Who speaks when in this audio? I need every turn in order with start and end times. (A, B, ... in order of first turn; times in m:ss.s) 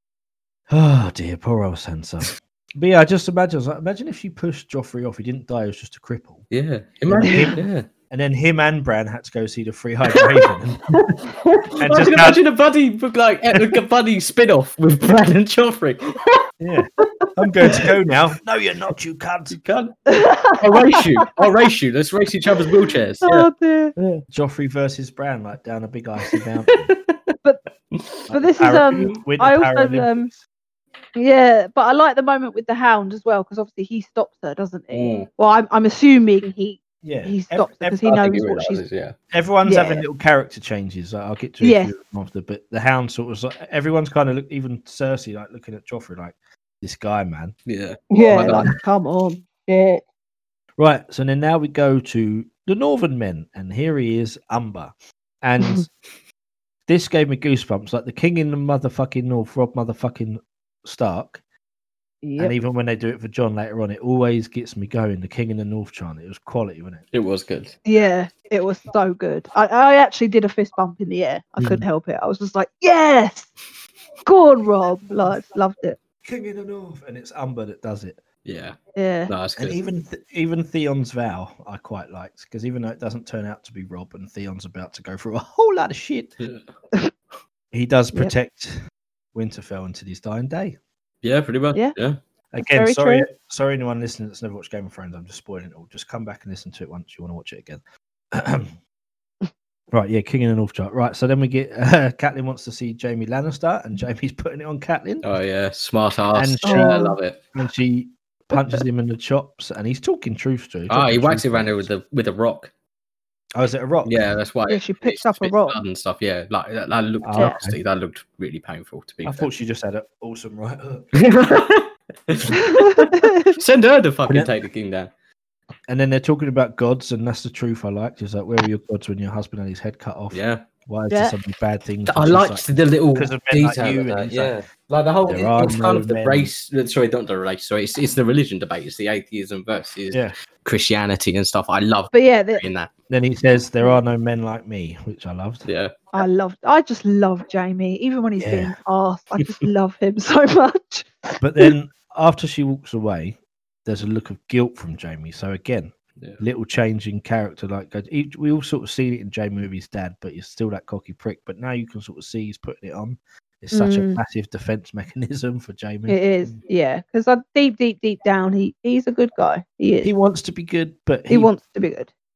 0:00.7-0:06.4 A
0:06.5-0:07.9 B
0:07.1-0:11.0 A
0:10.1-0:16.4 B
0:11.8-0:12.4 A
0:16.6-0:19.6 A
0:19.5-0:20.0 B
0:20.1-0:21.3 C
0:20.6-0:23.5 B
0:23.2-0:23.9 C
0:24.3-0:26.9 A
0:26.3-0:27.4 B
0:27.9-0:28.3 B
0:28.3-0:30.4 A
0:28.3-0:30.3 C
0:28.9-0:29.2 B
0:31.2-0:38.8 C
0:34.9-0:35.3 B
0:37.0-0:38.2 A
0:38.0-0:39.1 B
0:39.3-0:47.5 A
0:39.6-0:40.0 C
0:41.6-0:41.9 C
0:47.6-0:48.7 B
0:48.1-0:50.0 C
0:48.4-0:48.7 A
0:50.8-0:55.9 A
0:56.9-1:01.4 A
1:02.2-1:02.5 C
1:02.4-1:07.0 A
1:07.1-1:07.8 B
1:07.8-1:13.5 C
1:14.2-1:16.0 C
1:16.2-1:18.2 A
1:18.4-1:18.8 B
1:18.9-1:19.3 C
1:19.3-1:19.8 B
1:19.6-1:26.4 A
1:27.7-1:28.8 A
1:29.3-1:30.8 A
1:31.2-1:32.2 B
1:32.5-1:37.8 A
1:32.7-1:33.2 C
1:38.3-1:38.8 A
1:39.9-1:45.2 A
1:45.2-1:47.4 B
1:46.3-1:51.9 A
1:46.6-1:47.2 C
1:50.9-1:52.7 B
1:53.6-1:54.1 A
1:54.0-1:59.5 B
1:54.7-1:55.8 C
1:57.2-1:57.8 A
1:59.2-2:01.1 A
2:01.2-2:05.1 B
2:02.5-2:03.6 C
2:05.9-2:14.6 A
2:10.3-2:10.7 B
2:11.1-2:11.3 C
2:12.1-2:22.9 B
2:15.3-2:16.5 A
2:22.1-2:22.6 C
2:23.1-2:25.7 A
2:25.6-2:26.0 B
2:26.1-2:31.7 C
2:28.4-2:28.8 A
2:31.4-2:46.2 A
2:43.7-2:44.2 C
2:46.1-2:50.1 C
2:50.0-2:51.5 A
2:51.3-2:52.1 C